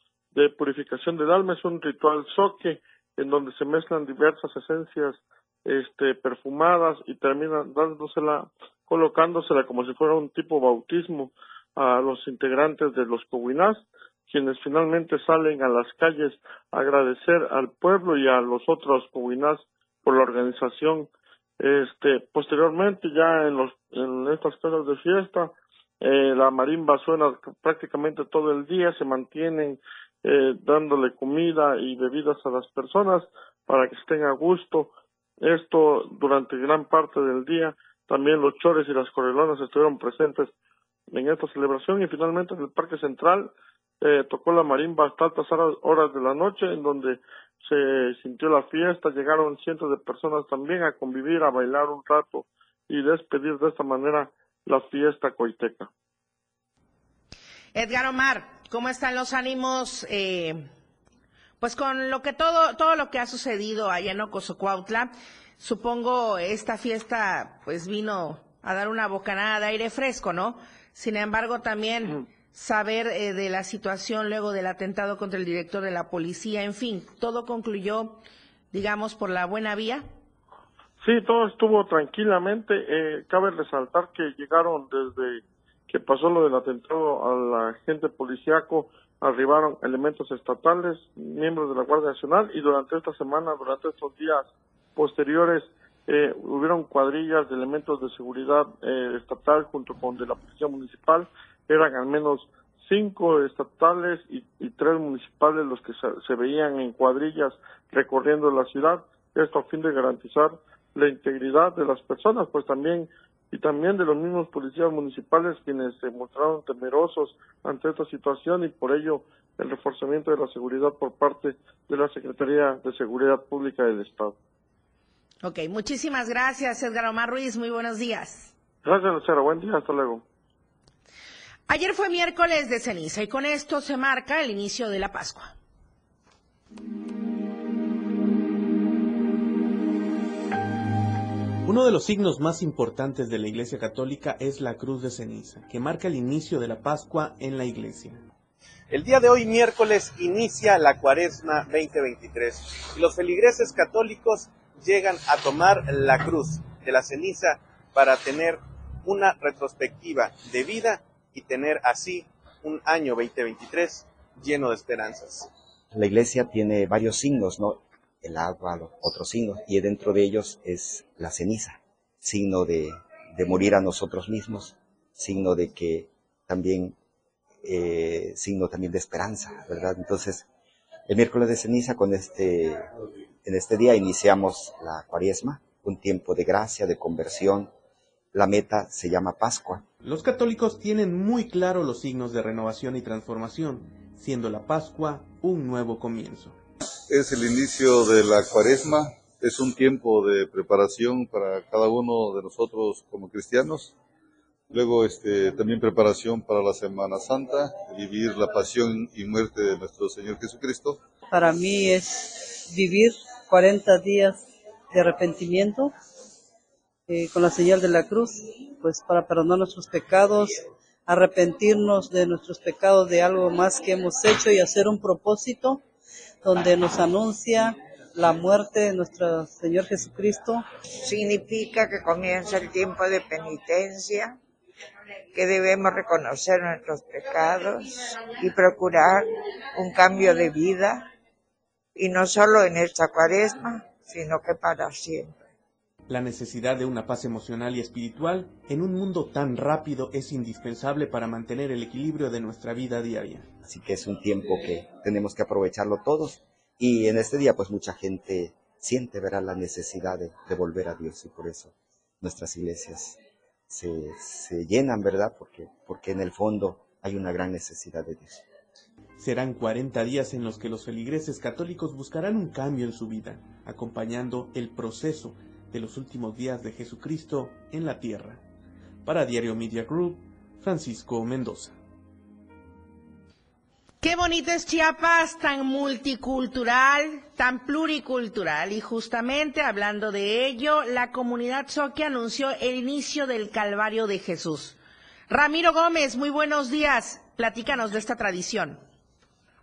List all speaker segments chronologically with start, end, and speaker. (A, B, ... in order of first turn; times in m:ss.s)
0:00.3-0:21.1 A
0:21.6-0:34.9 A
0:35.4-0:40.5 A
0:41.1-0:55.9 A
0:57.8-1:00.7 B
1:01.6-1:18.2 B
1:18.7-1:20.1 B
1:21.0-2:04.4 A
2:05.4-2:08.5 B
2:08.8-2:10.2 A
2:11.7-2:15.5 B
2:21.6-2:28.2 C
2:28.9-2:45.5 D
2:45.9-2:57.0 E
2:57.6-3:00.4 E
3:01.1-3:02.9 E
3:03.4-3:07.7 E
3:08.3-3:09.8 E
3:10.0-3:16.6 C
3:17.1-3:23.9 F
3:24.7-3:31.0 F
3:31.3-3:35.9 G
3:37.1-3:45.8 G
3:46.4-3:50.6 G
3:51.0-3:54.4 H
3:55.3-4:01.1 H
4:02.0-4:05.4 H
4:06.1-4:13.5 C
4:13.6-4:23.2 E
4:23.7-4:28.4 E
4:29.2-4:38.4 C
4:39.0-4:41.8 C
4:44.0-4:54.8 B
4:55.3-4:58.8 B